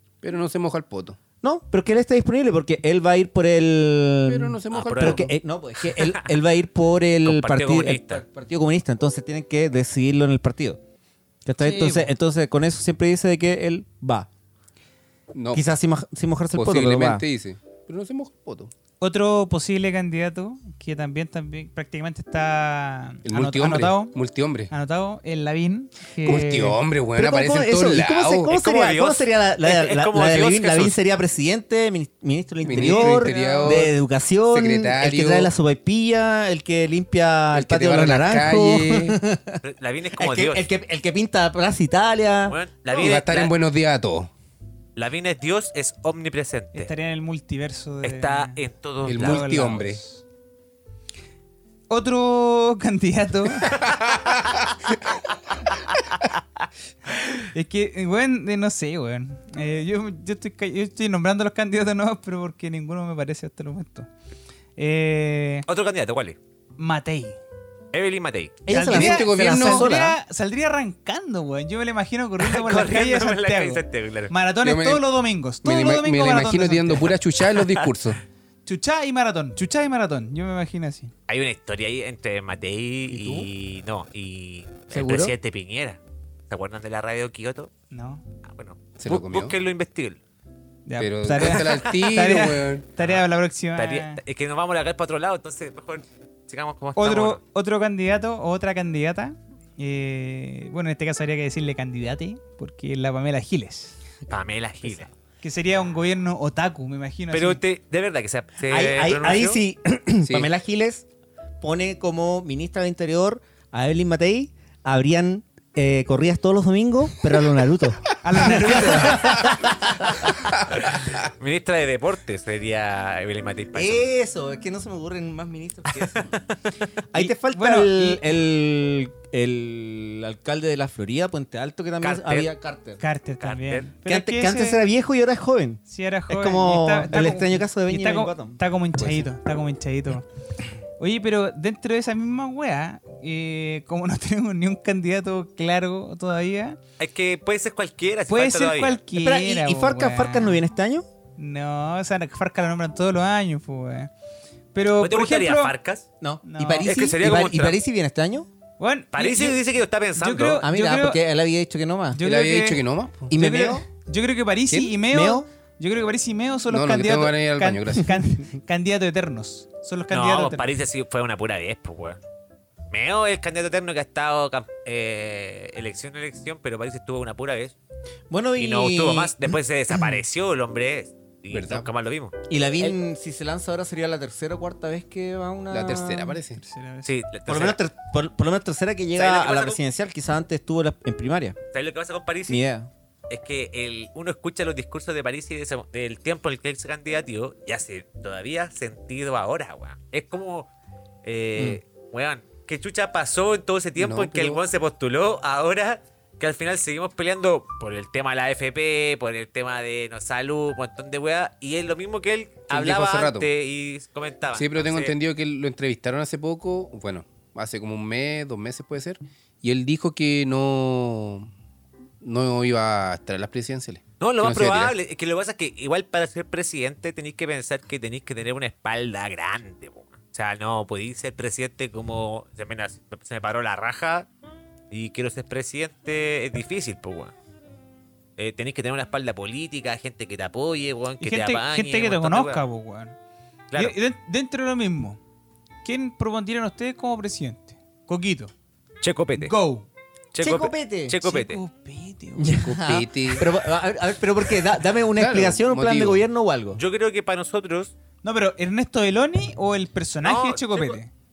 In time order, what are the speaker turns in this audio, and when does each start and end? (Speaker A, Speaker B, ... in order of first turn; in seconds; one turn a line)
Speaker A: 0.2-1.2
Speaker B: 1.4-10.8
Speaker A: 4.2-5.3
Speaker C: 4.7-5.3
Speaker C: 5.8-6.2
Speaker C: 7.2-8.2
Speaker B: 11.4-14.3
Speaker D: 11.6-12.1
Speaker A: 15.3-15.7
Speaker B: 15.5-17.2
Speaker A: 16.5-18.7
Speaker D: 19.0-24.1
Speaker A: 23.2-24.7
Speaker D: 24.7-26.8
Speaker A: 26.2-28.5
Speaker B: 27.1-39.6
Speaker C: 28.5-31.0
Speaker A: 32.6-33.9
Speaker D: 32.7-33.9
Speaker A: 34.5-35.5
Speaker A: 37.5-39.2
Speaker C: 39.6-40.6
Speaker B: 40.2-43.1
Speaker C: 42.5-43.5
Speaker A: 42.9-44.3
Speaker C: 45.0-46.9
Speaker D: 46.7-48.6
Speaker C: 48.0-49.5
Speaker A: 49.0-50.0
Speaker D: 49.1-50.2
Speaker D: 51.9-53.8
Speaker A: 53.8-54.6
Speaker D: 57.5-64.1
Speaker D: 64.8-65.7
Speaker C: 65.7-66.4
Speaker D: 66.8-67.4
Speaker C: 67.9-68.6
Speaker B: 68.6-70.2
Speaker D: 68.7-77.1
Speaker A: 68.7-69.9
Speaker C: 72.4-74.3
Speaker A: 74.6-75.1
Speaker A: 75.6-78.2
Speaker C: 77.5-77.9
Speaker D: 78.7-81.1
Speaker C: 81.3-86.0
Speaker B: 83.1-83.5
Speaker B: 84.9-85.3
Speaker C: 86.5-87.7
Speaker D: 87.9-88.2
Speaker C: 88.4-90.2
Speaker A: 89.0-89.5
Speaker D: 90.8-94.2
Speaker A: 91.0-92.8
Speaker C: 93.8-97.4
Speaker D: 97.0-104.0
Speaker C: 104.3-105.1
Speaker D: 105.4-107.6
Speaker C: 107.3-109.6
Speaker B: 108.7-111.0
Speaker A: 110.2-110.5
Speaker B: 111.6-120.3
Speaker D: 118.2-119.4
Speaker C: 120.7-124.1
Speaker B: 123.7-126.3
Speaker B: 127.1-133.0
Speaker D: 127.1-128.2
Speaker C: 132.0-132.5
Speaker D: 133.0-134.8
Speaker C: 133.4-133.9
Speaker B: 134.1-138.6
Speaker D: 135.9-140.2
Speaker A: 139.0-139.2
Speaker D: 141.0-146.8
Speaker C: 147.0-149.0
Speaker D: 148.3-150.6
Speaker B: 149.1-151.1
Speaker D: 151.4-154.1
Speaker D: 154.7-155.7
Speaker C: 155.0-156.1
Speaker B: 156.2-158.5
Speaker D: 156.4-156.9
Speaker C: 156.8-157.8
Speaker D: 158.8-159.6
Speaker C: 159.1-160.6
Speaker D: 160.2-161.2
Speaker B: 160.6-162.2
Speaker D: 162.1-170.7
Speaker A: 162.2-163.3
Speaker B: 163.3-163.8
Speaker B: 165.0-165.5
Speaker A: 166.7-168.2
Speaker C: 170.1-172.2
Speaker C: 172.9-177.7
Speaker B: 178.3-179.6
Speaker C: 178.6-182.9
Speaker A: 181.5-181.9
Speaker B: 182.5-186.4
Speaker A: 185.7-186.6
Speaker D: 186.6-187.1
Speaker C: 187.0-187.8
Speaker B: 187.5-191.6
Speaker C: 189.2-189.8
Speaker C: 191.7-192.6
Speaker B: 192.5-192.9
Speaker C: 193.3-200.7
Speaker C: 201.2-215.1
Speaker A: 204.0-204.6
Speaker A: 212.7-213.5
Speaker A: 214.5-221.5
Speaker A: 222.2-224.9
Speaker C: 224.2-234.3
Speaker C: 234.9-237.3
Speaker C: 238.4-242.6
Speaker D: 241.2-243.1
Speaker D: 243.7-245.2
Speaker D: 245.8-248.5
Speaker C: 249.0-249.5
Speaker D: 249.4-249.9
Speaker C: 250.3-251.6
Speaker B: 250.4-251.2
Speaker D: 251.2-252.6
Speaker B: 252.4-256.8
Speaker A: 252.6-253.5
Speaker A: 255.2-256.2
Speaker C: 256.7-257.9
Speaker D: 258.2-261.1
Speaker C: 260.2-261.0